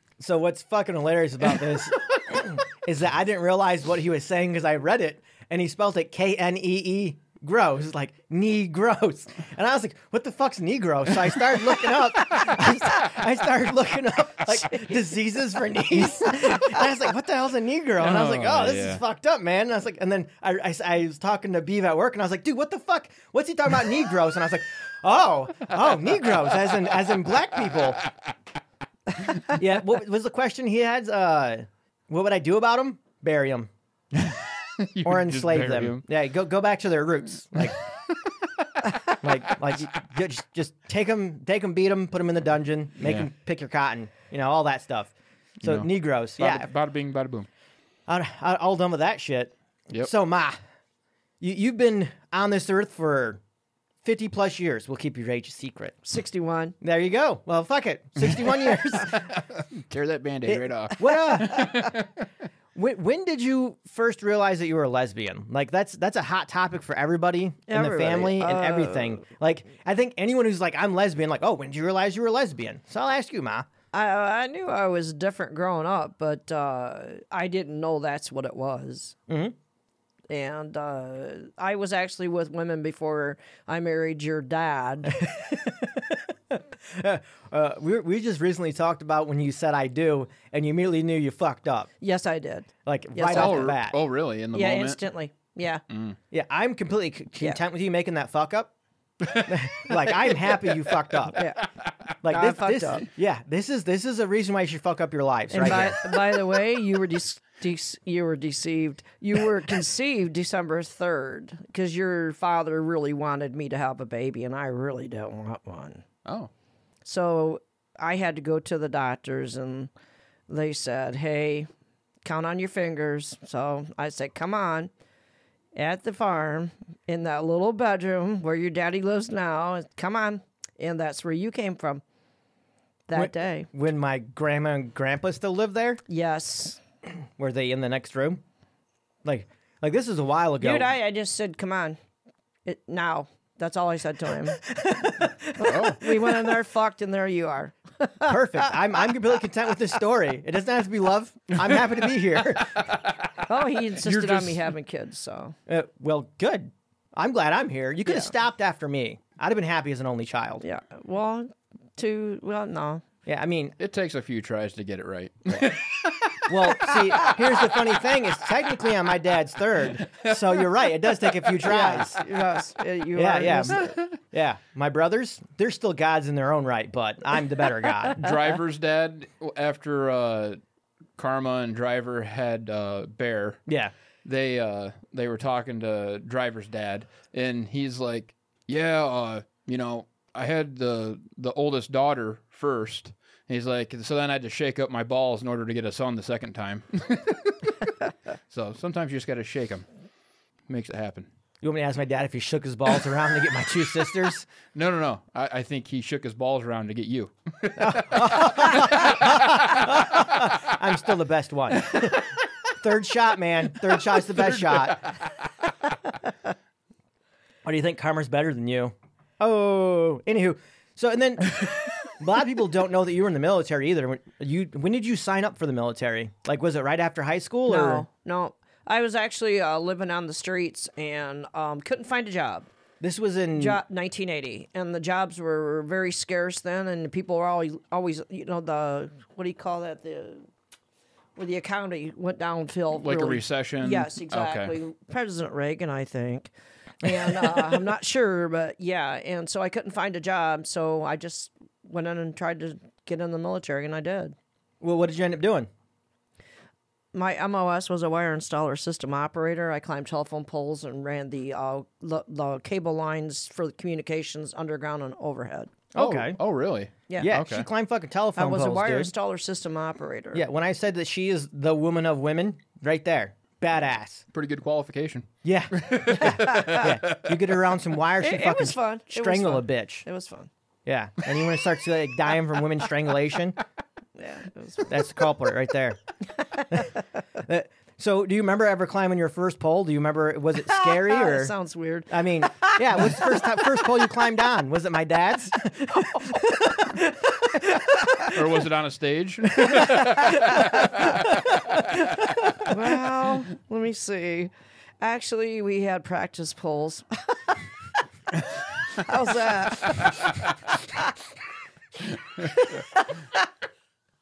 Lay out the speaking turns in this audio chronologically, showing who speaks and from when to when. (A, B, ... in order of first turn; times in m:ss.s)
0:00.2-0:28.0 A
0:18.0-0:19.0 B
0:29.5-0:33.7 A
0:34.2-0:36.0 B
0:35.0-0:37.8 A
0:39.2-0:45.1 A
0:43.0-0:43.3 B
0:45.6-0:46.7 A
0:45.6-0:47.5 B
0:48.1-0:50.6 A
0:51.4-0:53.4 A
0:54.0-0:56.0 A
0:56.0-0:56.8 C
0:56.8-0:59.3 A
0:58.2-1:02.2 B
1:00.5-1:02.0 A
1:02.8-1:13.7 A
1:07.7-1:09.2 C
1:13.9-1:19.2 C
1:19.3-1:19.6 A
1:20.3-1:25.2 C
1:25.1-1:31.9 A
1:32.0-1:33.7 C
1:32.8-1:34.0 A
1:33.3-1:35.0 B
1:34.5-1:35.8 C
1:35.9-1:36.2 B
1:36.3-1:38.7 A
1:39.2-1:40.8 B
1:39.4-1:41.4 A
1:41.3-1:41.7 C
1:42.2-1:46.0 A
1:42.3-1:43.1 C
1:45.5-1:56.0 C
1:56.2-1:56.5 B
1:57.0-1:59.9 C
2:00.5-2:01.7 C
2:02.2-2:04.9 C
2:05.8-2:12.0 C
2:13.1-2:13.7 C
2:13.1-2:16.0 A
2:16.1-2:16.8 C
2:17.4-2:18.4 A
2:19.2-2:20.9 A
2:20.6-2:22.0 C
2:22.6-2:24.6 C
2:24.6-2:26.6 A
2:25.6-2:28.7 C
2:25.6-2:26.0 B
2:28.3-2:32.9 A
2:31.6-2:31.9 B
2:32.6-2:33.3 B
2:33.5-2:35.5 C
2:33.9-2:34.7 B
2:35.7-2:40.6 A
2:38.1-2:38.3 C
2:40.6-2:43.0 C
2:43.3-2:43.8 A
2:43.8-2:46.5 B
2:46.5-2:52.2 A
2:51.6-2:54.0 C
2:53.2-2:58.4 A
2:58.1-3:00.6 B
3:01.2-3:03.6 B
3:03.7-3:03.9 A
3:04.2-3:18.0 B
3:18.5-3:19.9 B
3:20.7-3:21.3 B
3:21.6-3:24.5 A
3:24.7-3:30.0 B
3:27.8-3:35.1 A
3:34.3-3:35.2 B
3:37.6-3:48.1 A
3:47.7-3:52.7 C
3:53.0-3:53.8 A
3:53.6-4:00.5 C
4:01.4-4:14.4 C
4:03.0-4:04.8 B
4:14.8-4:15.7 A
4:17.1-4:25.9 C
4:25.9-4:26.4 A
4:26.0-4:27.7 B
4:27.1-4:27.4 C
4:27.2-4:29.1 A
4:28.4-4:30.5 C
4:30.3-4:34.2 A
4:34.3-4:37.5 B
4:35.4-4:40.1 A
4:36.1-4:36.9 C
4:38.2-4:40.5 C
4:40.9-4:43.6 A
4:44.2-4:44.9 C
4:44.9-4:46.0 A
4:46.6-4:47.0 C
4:46.7-4:51.5 A
4:50.6-4:53.7 C
4:52.1-4:58.3 A
4:58.2-5:02.1 B
4:59.6-5:00.4 A
5:02.6-5:07.6 C
5:08.8-5:11.2 C
5:12.4-5:13.5 C